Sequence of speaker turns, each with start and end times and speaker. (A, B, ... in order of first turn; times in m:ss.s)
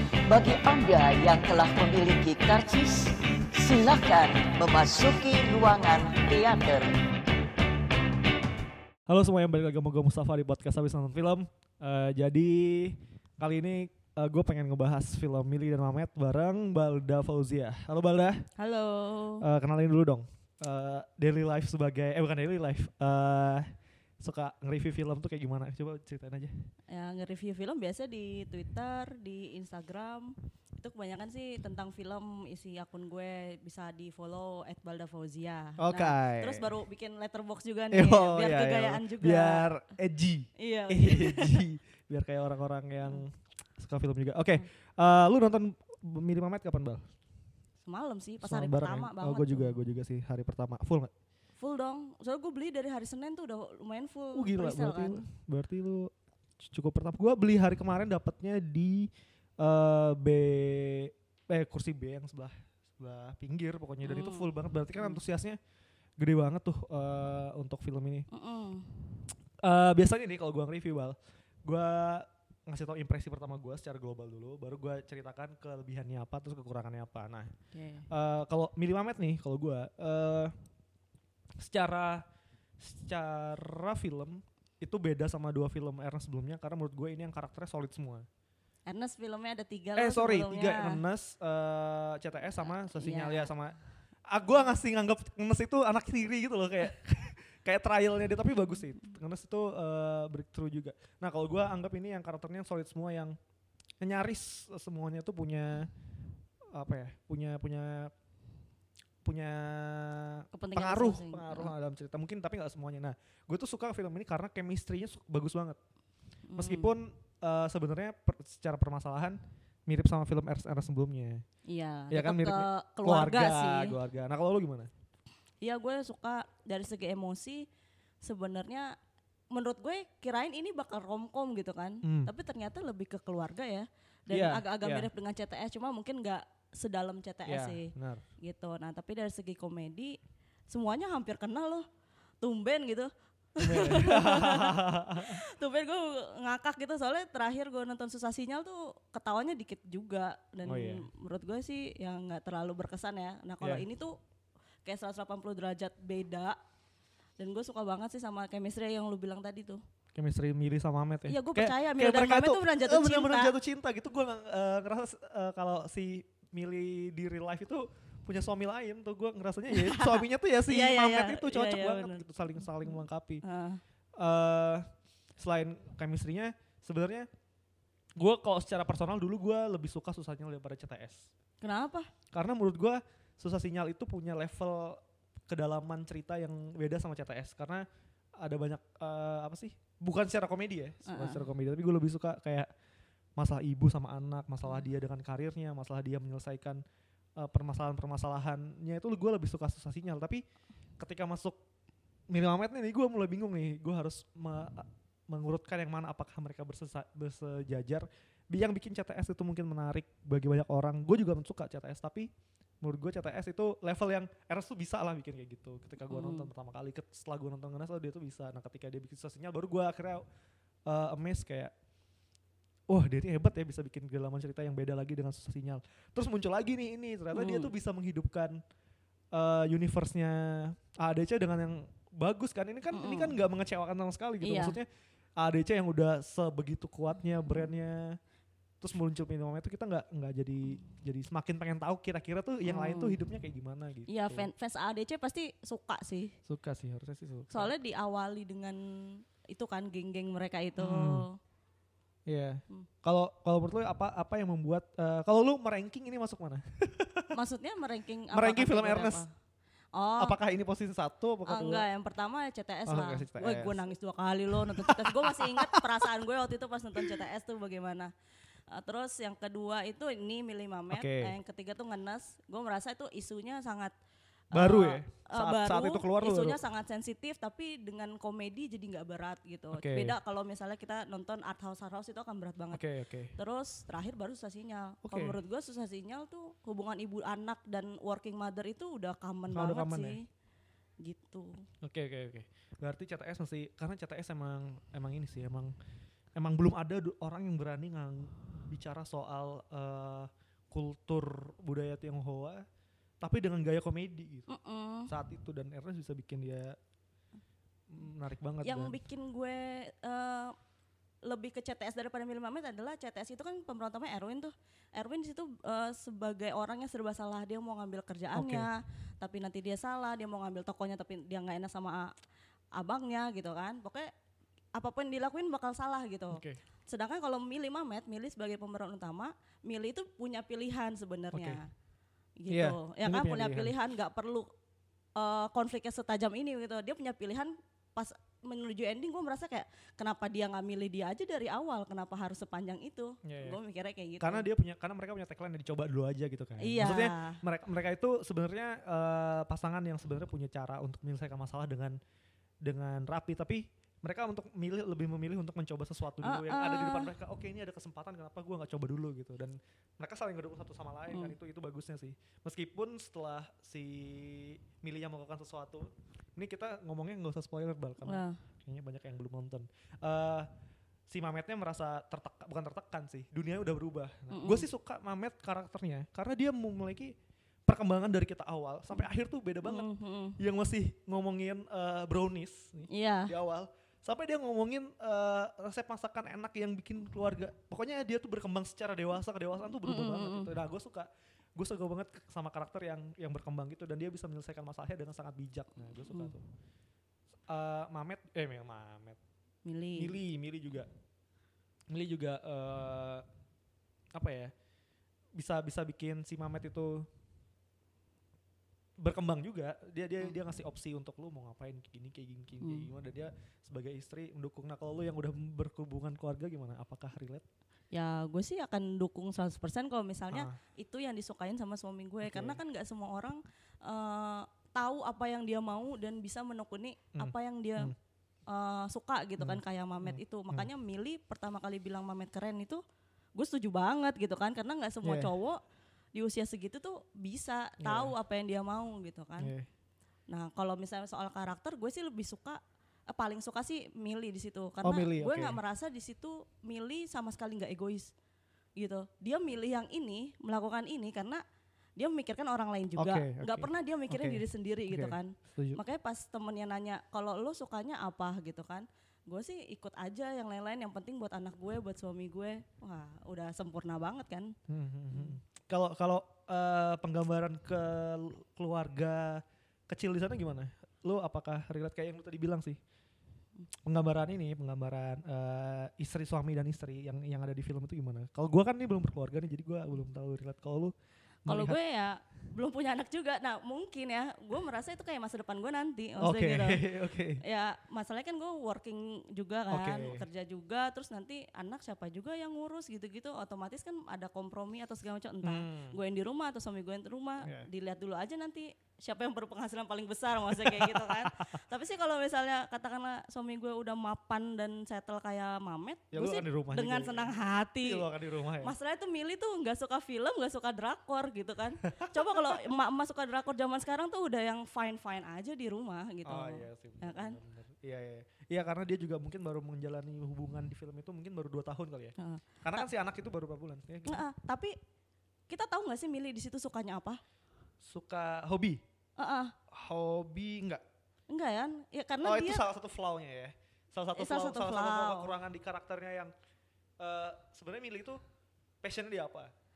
0:00.3-0:07.0 A
0:09.1-0:18.5 B
0:18.6-0:19.4 C
0:19.4-0:26.5 B
0:26.9-0:39.7 C
0:35.8-0:36.7 B
0:37.9-0:47.1 B
0:40.6-0:41.6 C
0:47.9-0:49.7 C
0:48.4-0:51.1 B
0:51.6-0:55.2 C
0:54.4-1:05.6 B
1:04.0-1:05.2 C
1:06.2-1:08.3 B
1:08.3-1:09.0 C
1:09.6-1:17.5 B
1:17.7-1:18.1 C
1:18.1-1:20.5 B
1:21.6-1:22.2 B
1:22.8-1:28.3 B
1:28.9-1:31.0 C
1:30.0-1:43.4 B
1:33.0-1:33.5 C
1:44.0-1:45.9 B
1:46.7-1:48.1 B
1:49.2-1:55.8 B
1:50.5-1:51.7 C
1:56.5-1:56.9 C
1:56.6-2:01.4 B
2:01.7-2:04.0 C
2:02.1-2:04.9 B
2:05.6-2:07.6 C
2:08.2-2:08.9 C
2:09.5-2:20.2 C
2:12.0-2:12.3 B
2:14.3-2:15.1 B
2:17.5-2:18.2 B
2:20.7-2:21.9 C
2:22.4-2:34.2 C
2:23.6-2:25.4 B
2:30.7-2:31.1 B
2:34.8-2:36.6 C
2:37.4-2:39.8 C
2:40.2-2:53.4 B
2:41.3-2:43.6 C
2:49.7-2:52.2 C
2:52.8-2:53.8 C
2:54.2-2:57.3 B
2:58.2-3:01.3 B
3:01.6-3:02.1 C
3:02.3-3:07.8 B
3:08.4-3:12.7 B
3:11.1-3:11.4 C
3:13.4-3:16.8 B
3:17.4-3:20.4 B
3:21.0-3:21.6 B
3:22.3-3:32.3 B
3:32.8-3:40.2 B
3:36.1-3:36.5 C
3:40.9-3:41.7 B
3:42.9-3:48.6 B
3:47.3-3:47.7 C
3:49.3-3:54.9 B
3:52.9-3:53.4 C
3:54.4-3:54.8 C
3:55.4-3:58.2 B
3:58.8-4:04.5 B
4:02.6-4:03.2 C
4:04.1-4:06.4 C
4:06.5-4:07.7 B
4:07.5-4:11.4 C
4:10.8-4:11.2 B
4:12.3-4:17.3 B
4:17.3-4:19.3 C
4:18.3-4:19.2 B
4:20.0-4:20.4 C
4:20.2-4:21.9 B
4:21.5-4:28.1 C
4:22.9-4:23.8 B
4:24.5-4:26.1 B
4:28.7-4:33.9 C
4:30.9-4:31.3 B
4:34.5-4:50.3 C
4:34.5-4:36.6 B
4:39.7-4:40.2 B
4:42.7-4:43.4 B
4:45.0-4:45.4 B
4:49.5-4:50.2 B
4:51.0-4:51.6 C
4:51.8-4:55.7 B
4:56.4-5:02.6 B
5:03.2-5:04.5 B
5:04.5-5:05.1 C
5:05.1-5:06.8 B
5:07.9-5:09.0 B
5:08.6-5:10.5 C
5:11.3-5:22.1 C
5:18.3-5:18.7 B
5:22.8-5:24.1 C
5:24.7-5:31.7 C
5:26.3-5:26.6 B
5:31.3-5:31.6 B
5:32.4-5:34.5 C
5:32.5-5:33.7 B
5:35.2-5:44.5 C
5:43.2-5:43.6 B
5:44.2-5:52.0 B
5:46.6-5:47.4 C
5:52.6-6:10.5 B
5:56.2-5:57.1 C
6:01.1-6:01.4 C
6:08.0-6:08.4 C
6:11.1-6:17.2 B
6:14.3-6:14.7 C
6:17.7-6:36.4 B
6:19.6-6:20.4 C
6:22.9-6:23.3 C
6:29.9-6:30.5 C
6:37.5-6:39.2 B
6:39.7-6:40.2 C
6:40.0-6:40.9 B
6:41.9-6:43.3 B
6:44.1-6:44.5 B
6:45.4-6:47.1 B
6:49.0-6:57.4 B
6:52.6-6:52.9 C
6:57.9-7:07.9 C
7:00.3-7:00.6 B
7:02.2-7:02.6 B
7:07.2-7:08.0 B
7:08.5-7:12.8 C
7:09.4-7:10.7 B
7:13.4-7:15.6 C
7:15.0-7:15.3 B
7:16.2-7:19.5 C
7:17.8-7:18.1 B
7:19.4-7:19.7 B
7:20.3-7:28.1 C
7:24.8-7:25.6 B
7:28.8-7:31.4 C
7:32.0-7:44.5 C
7:33.0-7:35.8 B
7:44.7-7:52.8 B
7:45.1-7:45.4 C
7:53.8-8:00.9 B
8:01.5-8:01.8 B
8:01.5-8:06.8 C
8:06.2-8:07.4 B
8:07.4-8:28.1 C
8:09.7-8:10.2 B
8:15.4-8:16.0 B
8:20.5-8:21.6 B
8:26.1-8:28.8 B
8:28.6-8:37.4 C
8:31.9-8:32.6 B
8:36.3-8:44.2 B
8:42.2-8:42.9 C
8:44.1-8:44.7 C
8:45.5-8:47.2 C
8:47.8-8:48.8 B
8:49.2-8:49.5 C
8:49.7-8:50.8 B
8:51.3-8:52.7 C
8:52.2-8:56.3 B
8:54.2-8:55.3 C
8:57.0-8:58.2 B
8:58.8-8:59.5 B